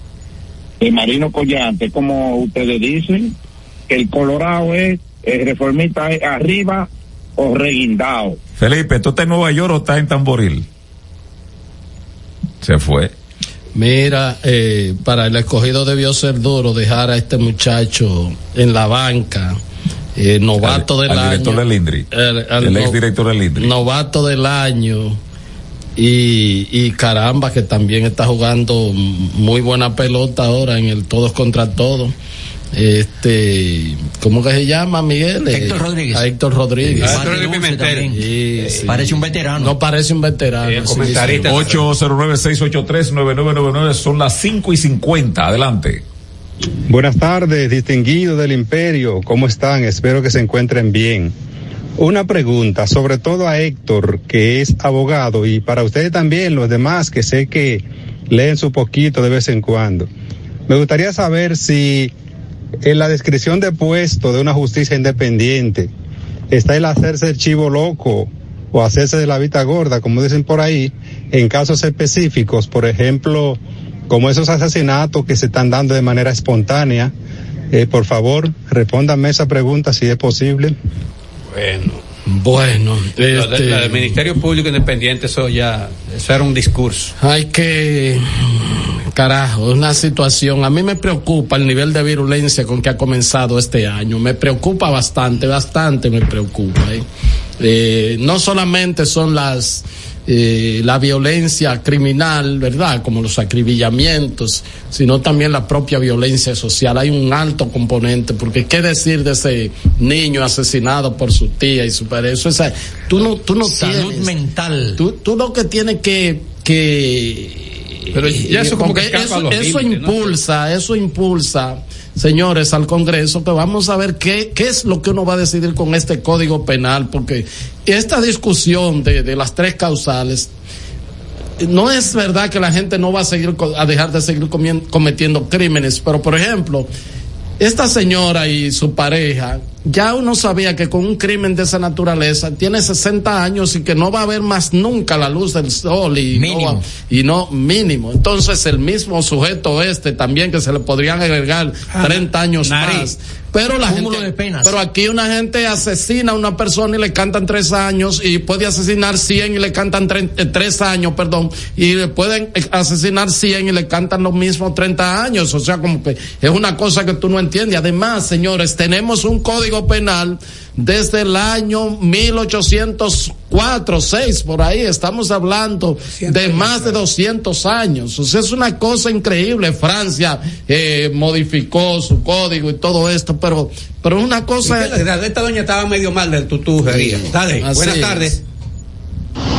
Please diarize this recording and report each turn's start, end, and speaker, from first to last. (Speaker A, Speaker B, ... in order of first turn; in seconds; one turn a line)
Speaker A: 0.8-3.3
Speaker A: 3.9-8.4
Speaker B: 8.6-10.7
Speaker B: 12.6-13.1
Speaker C: 13.7-19.6
Speaker C: 20.1-23.0
Speaker B: 20.6-22.1
Speaker B: 22.6-23.7
Speaker C: 23.6-25.2
Speaker C: 26.0-32.1
Speaker C: 32.7-37.2
Speaker D: 35.5-36.3
Speaker D: 36.8-38.2
Speaker E: 37.0-38.1
Speaker C: 38.1-41.6
Speaker D: 38.8-39.8
Speaker E: 40.6-41.9
Speaker B: 41.4-46.0
Speaker F: 46.9-51.3
Speaker F: 52.0-60.1
Speaker F: 60.7-62.1
Speaker F: 62.8-65.9
Speaker F: 66.5-77.1
Speaker F: 77.7-80.7
Speaker E: 81.5-82.0
Speaker C: 82.3-84.1
Speaker E: 83.3-87.1
Speaker C: 87.2-97.0
Speaker C: 97.6-114.3
Speaker D: 113.6-115.0
Speaker C: 115.0-130.5
Speaker E: 118.1-120.4
Speaker C: 131.6-136.9
Speaker C: 137.6-185.0
Speaker D: 146.3-146.8
Speaker E: 151.9-153.1
Speaker D: 153.8-154.8
Speaker E: 176.1-177.0
Speaker E: 184.6-188.4
Speaker C: 186.8-188.3